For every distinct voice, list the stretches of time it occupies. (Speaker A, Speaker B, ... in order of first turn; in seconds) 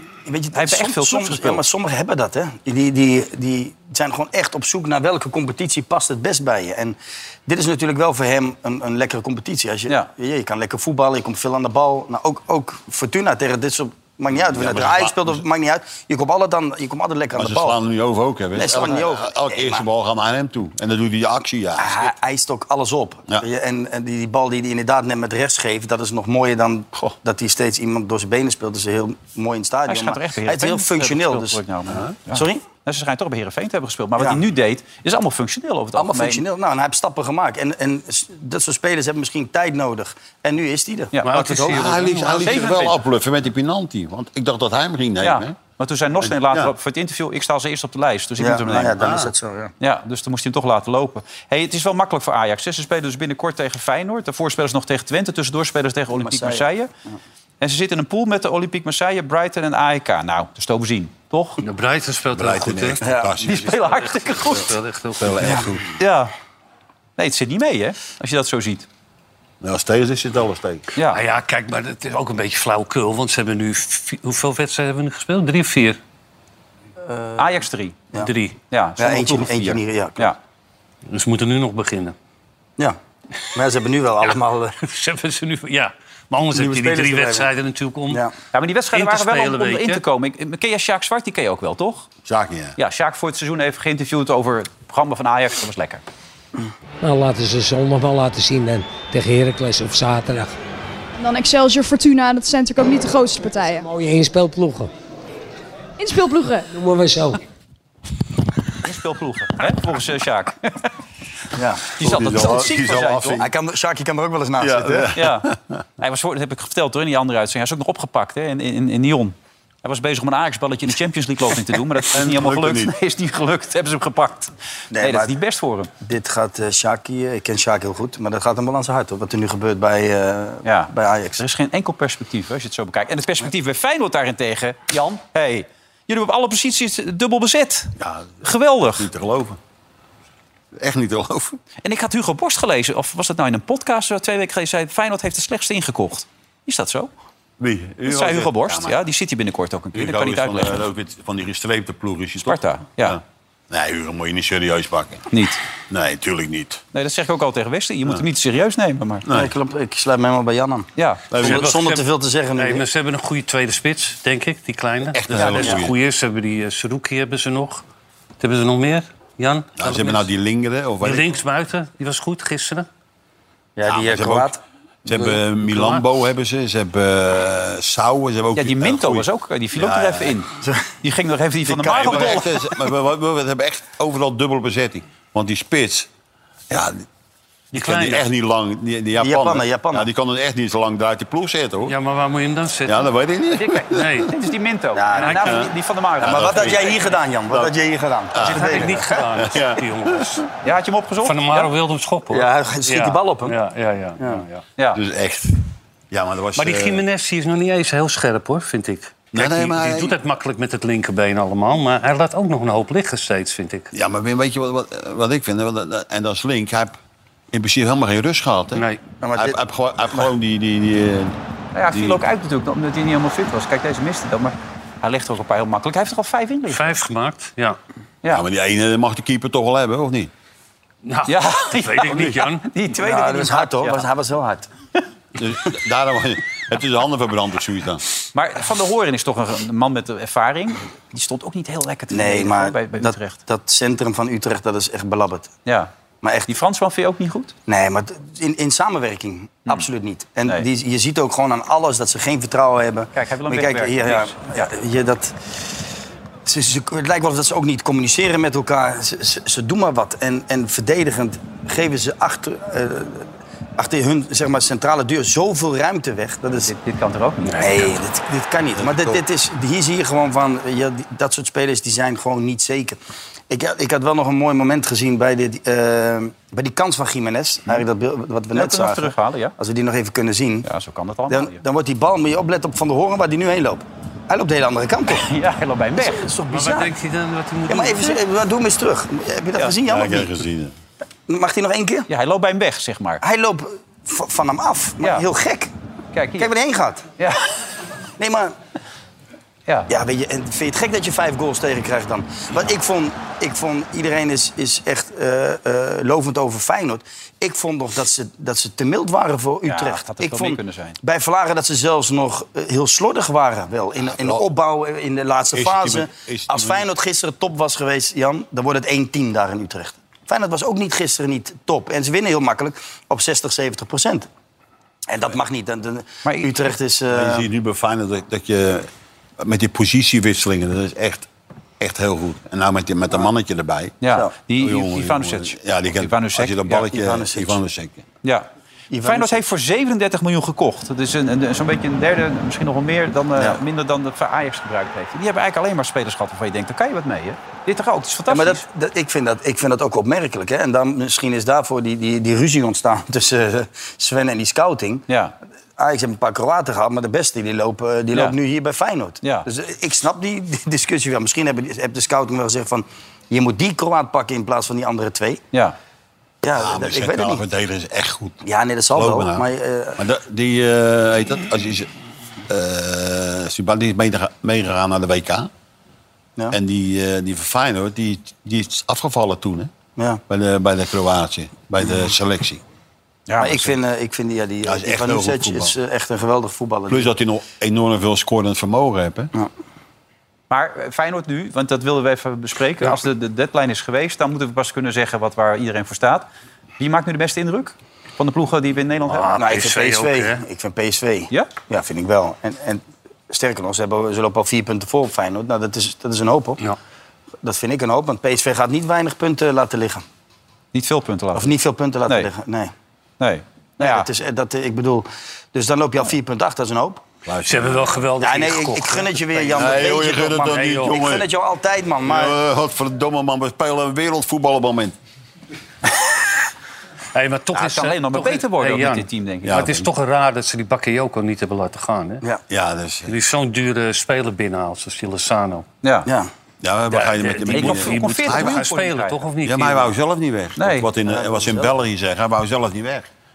Speaker A: 0.3-17.8, 18.6-19.9, 21.8-31.6, 32.3-32.6, 36.0-41.9, 48.4-49.7, 56.1-57.2, 63.0-63.3, 77.1-78.3, 79.0-80.3, 83.5-84.8, 86.5-87.5, 111.5-111.9, 113.4-115.1, 124.9-125.4, 126.0-131.4, 159.3-162.8, 165.4-165.8, 173.8-174.6, 180.6-180.9, 181.7-182.5, 189.2-190.1, 195.0-195.7, 196.2-199.2, 202.3-203.6, 219.2-219.6, 233.0-234.7, 242.1-245.5, 246.2-246.5, 247.7-255.3, 256.4-266.7, 267.6-273.0, 273.5-280.7, 281.3-285.3, 286.0-286.9, 287.7-290.3, 291.3-292.1, 293.2-295.7, 296.4-297.1, 298.2-298.6, 299.9-324.3, 325.1-327.5, 336.9-337.6, 338.9-339.4, 348.3-355.1, 355.8-365.4, 366.4-367.4, 368.4-370.0, 383.4-387.1, 399.4-406.6, 407.4-410.0, 411.4-412.7, 413.8-417.0, 418.2-422.4, 441.1-441.8
Speaker B: 0.5-1.6, 29.9-36.4, 42.4-43.0, 45.2-49.1, 49.8-56.9, 57.6-61.6, 63.4-64.7, 66.0-66.3, 67.2-68.9, 77.4-78.1, 78.7-80.4, 88.5-92.1, 92.8-96.0, 108.8-110.9, 112.0-113.4, 115.1-115.5, 116.0-125.9, 130.7-139.1, 141.8-147.1, 148.1-150.9, 152.4-153.2, 155.3-155.6, 156.9-159.3, 161.0-161.3, 178.6-180.5, 181.0-182.5, 193.5-197.2, 200.6-201.7, 221.7-226.9, 231.3-234.1, 238.3-243.4, 245.7-245.9, 246.5-247.6, 253.1-254.7, 266.6-267.7, 278.5-279.5, 280.6-281.6, 285.1-286.3, 292.1-293.2, 296.1-296.5, 309.7-311.0, 326.2-326.5, 334.0-336.9, 338.2-338.5, 339.0-348.6, 355.1-355.4, 359.2-359.5, 383.3-383.8, 390.5-396.3, 396.8-399.4, 410.7-411.5, 413.2-414.1, 427.6-429.6, 435.8-436.1, 437.5-439.2, 440.6-440.9
Speaker C: 14.3-15.4, 17.4-22.1, 41.7-45.6, 46.2-46.7, 49.0-49.3, 62.3-64.0, 65.2-66.0, 69.6-70.9, 92.2-92.8, 112.0-113.5, 114.6-115.8, 122.0-122.9, 138.0-138.4, 139.0-139.6, 140.8-141.6, 147.6-149.0, 149.9-155.3, 155.9-156.8, 159.3-159.5, 161.3-161.7, 165.1-165.9, 169.8-171.3, 173.9-174.5, 175.1-180.4, 181.9-186.1, 186.7-187.1, 187.7-192.0, 192.9-194.2, 195.4-197.7, 198.3-200.4, 204.9-205.6, 206.1-207.0, 209.3-210.2, 213.9-217.0, 217.5-218.8, 219.4-221.4, 221.9-222.2, 228.3-230.3, 235.4-238.0, 268.8-269.2, 289.9-290.7, 314.1-314.5, 315.5-316.9, 327.1-328.9, 329.4-331.3, 331.8-334.0, 334.6-338.0, 366.6-368.4, 368.9-369.5, 370.0-371.9, 372.5-375.5, 376.5-379.7, 380.3-382.6, 384.6-385.8, 386.9-389.3, 417.2-418.0, 419.5-421.3, 422.0-425.0, 429.4-429.9, 432.5-433.1, 436.6-438.7, 439.4-443.1
Speaker D: 41.2-42.7, 61.6-63.0, 63.7-65.7, 71.1-76.0, 78.2-78.6, 81.1-82.2, 84.3-88.3, 88.9-90.0, 161.4-167.8, 168.4-170.3, 171.0-172.9, 175.2-176.1, 187.7-188.3, 191.9-193.1, 193.9-194.3, 195.2-195.6, 198.4-200.4, 201.2-204.6, 206.6-213.9, 218.8-219.0, 226.7-227.8, 231.0-232.7, 267.5-267.9, 286.5-288.2, 399.1-400.4, 417.5-421.0, 427.1-432.2, 433.1-435.6, 436.9-439.9
Speaker E: 97.0-100.5, 103.8-104.9, 106.7-107.4
Speaker F: 101.2-103.9, 106.0-106.7